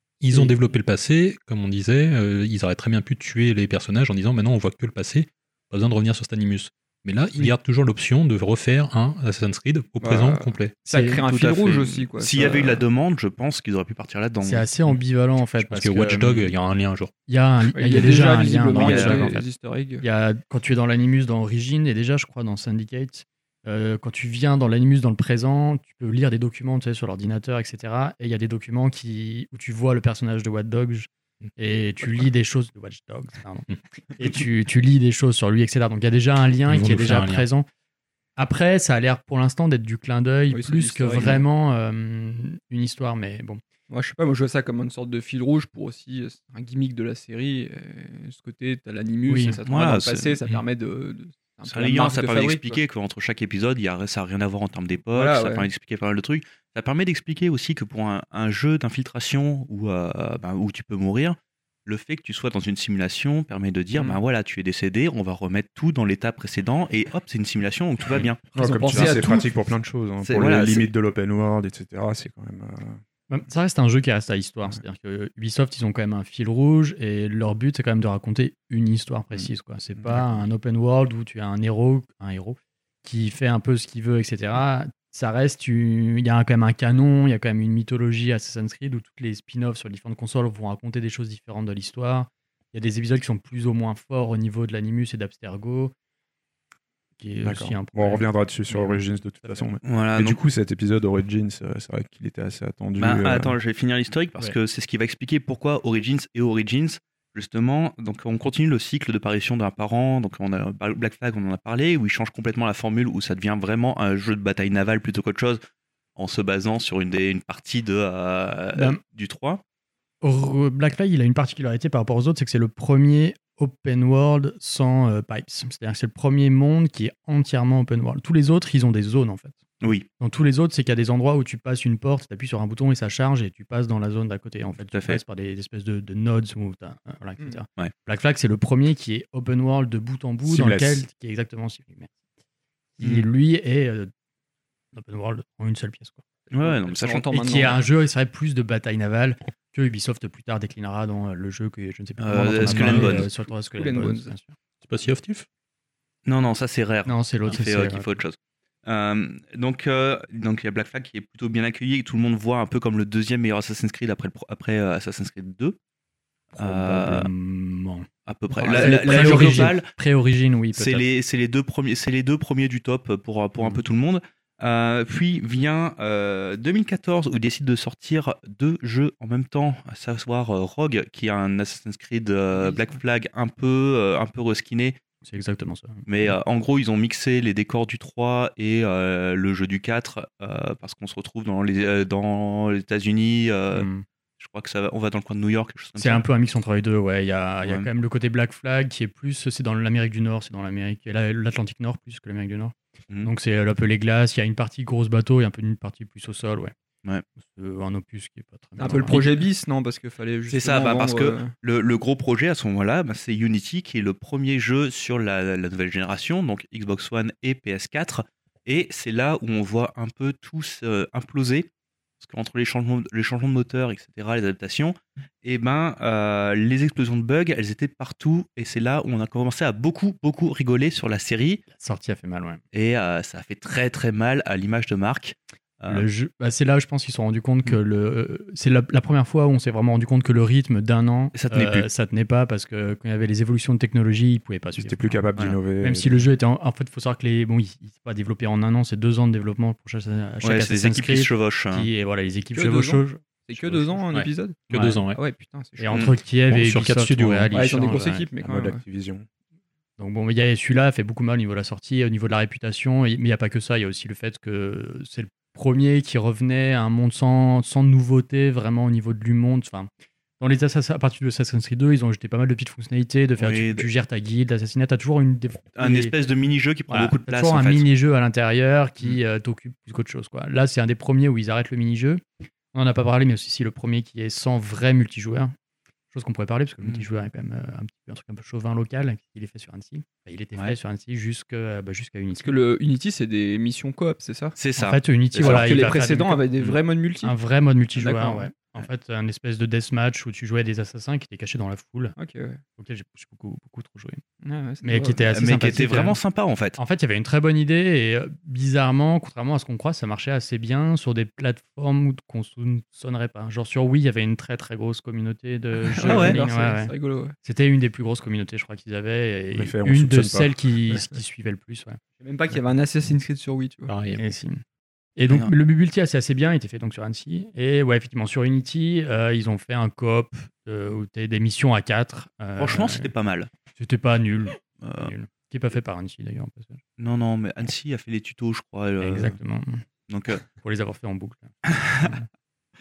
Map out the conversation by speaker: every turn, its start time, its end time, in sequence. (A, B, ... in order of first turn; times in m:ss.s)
0:00.2-0:10.8 A
0:10.0-0:12.8 B
0:10.9-0:11.2 C
0:11.2-0:14.7 D
0:14.4-0:16.4 C
0:15.6-0:17.1 A
0:17.3-0:19.4 C
0:17.7-0:20.0 B
0:18.8-0:19.3 D
0:20.0-0:37.7 C
0:36.7-0:37.4 A
0:38.4-0:43.6 C
0:40.5-0:41.4 B
0:43.9-0:52.8 B
0:49.3-0:49.6 C
0:49.6-0:50.4 D
0:51.6-1:09.2 D
0:55.1-0:55.7 B
1:08.5-1:13.0 E
1:08.5-1:09.5 B
1:10.2-1:10.9 D
1:13.3-1:35.9 C
1:20.0-1:20.4 E
1:37.2-1:39.7 C
1:37.4-1:43.5 E
1:39.8-1:40.4 D
1:43.0-1:55.6 D
1:56.2-1:59.6 D
1:58.7-1:59.0 C
2:00.2-2:09.6 C
2:09.8-2:10.1 D
2:10.2-2:22.1 C
2:14.9-2:15.2 D
2:20.4-2:21.1 E
2:23.0-2:24.1 C
2:23.0-2:23.2 D
2:24.9-2:26.2 C
2:26.5-2:27.3 D
2:26.6-2:27.8 B
2:27.3-2:34.6 C
2:32.2-2:33.3 D
2:32.7-2:33.2 A
2:33.0-2:34.3 B
2:34.8-2:35.4 A
2:36.2-2:45.8 D
2:37.0-2:38.1 C
2:46.5-2:51.0 C
2:46.6-2:47.3 D
2:48.3-2:49.9 D
2:48.8-2:49.7 B
2:50.7-3:05.0 D
3:02.5-3:02.9 B
3:05.2-3:06.4 C
3:06.1-3:13.9 D
3:13.7-3:14.0 C
3:14.4-3:16.2 D
3:16.0-3:26.7 C
3:17.6-3:17.9 D
3:27.4-3:29.5 C
3:28.8-3:31.5 B
3:28.9-3:29.2 D
3:30.5-3:41.7 D
3:42.2-3:51.6 D
3:51.7-3:52.6 C
3:52.7-3:56.1 D
3:55.9-4:05.2 C
4:01.3-4:01.9 D
4:04.7-4:06.2 E
4:05.8-4:14.0 C
4:10.4-4:11.9 D
4:12.6-4:16.1 B
4:14.1-4:15.2 A
4:14.7-4:15.0 C
4:15.8-4:18.3 C
4:16.5-4:17.9 A
4:17.5-4:18.8 B
4:18.4-4:19.2 E
4:20.0-4:36.1 C
4:33.4-4:33.8 D
4:35.8-4:37.8 D
4:36.9-4:42.2 C
4:42.7-4:45.5 C
4:46.1-4:52.5 C
4:52.4-4:54.6 B
4:54.6-4:55.8 D
4:54.8-4:56.4 C
4:55.4-4:57.3 B
4:57.2-5:02.1 C
4:58.0-4:58.5 B
5:02.2-5:02.6 B
5:02.8-5:04.2 C
5:04.4-5:05.2 B
5:04.8-5:06.2 C
5:05.3-5:06.8 D
5:06.8-5:22.0 C
5:15.9-5:17.3 B
5:16.0-5:16.4 D
5:19.5-5:20.6 E
5:22.2-5:23.9 B
5:23.9-5:24.2 A
5:24.2-5:24.6 C
5:25.2-5:33.1 C
5:32.6-5:33.5 D
5:33.8-5:36.8 C
5:34.8-5:35.1 D
5:37.0-5:39.4 D
5:39.0-5:39.8 C
5:40.1-5:40.4 D
5:40.4-5:42.2 C
5:41.6-5:42.2 D